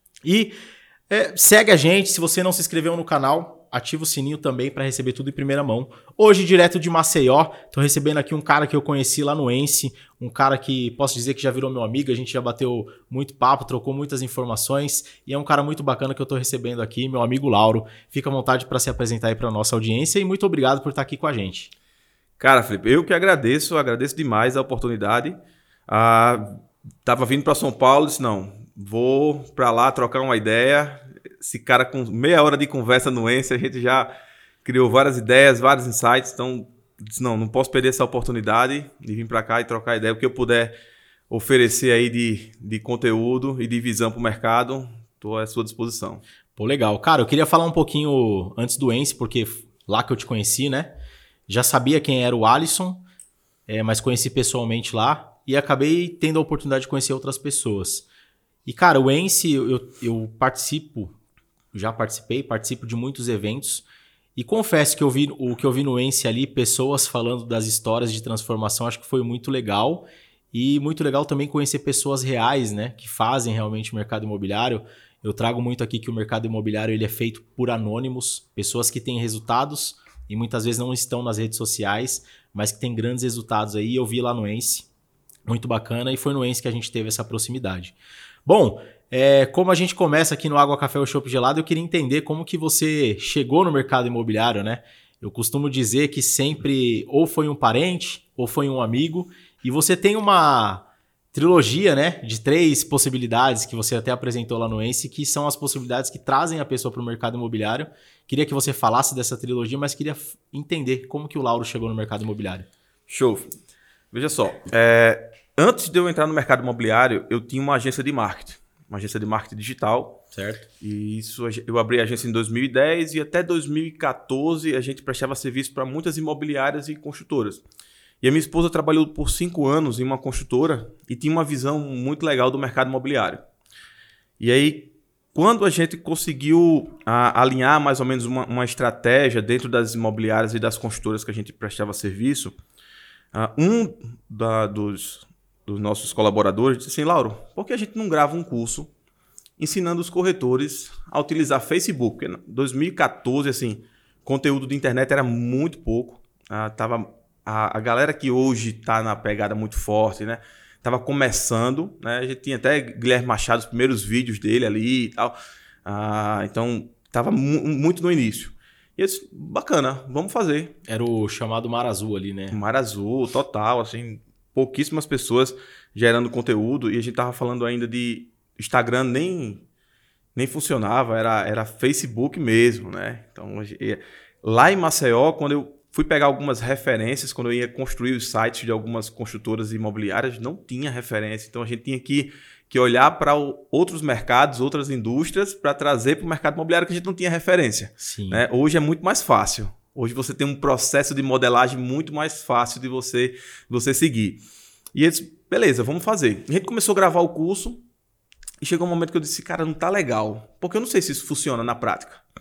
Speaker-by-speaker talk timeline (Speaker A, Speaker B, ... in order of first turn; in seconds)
Speaker A: 0.2-0.6, 1.1-21.7, 46.5-50.9, 51.5-53.0, 53.7-58.1, 58.7-61.1, 61.7-63.9, 64.4-84.9, 85.5-88.0, 88.5-112.7, 120.3-120.7, 170.9-172.6, 198.0-198.4
Speaker B: 22.4-25.4, 25.9-34.1, 34.6-40.8, 41.3-46.2, 113.1-113.5, 114.1-120.2, 120.8-127.6, 128.2-133.4, 134.4-142.6, 143.3-148.9, 149.6-170.8, 172.5-179.6, 180.3-204.4, 204.9-207.8, 208.6-212.2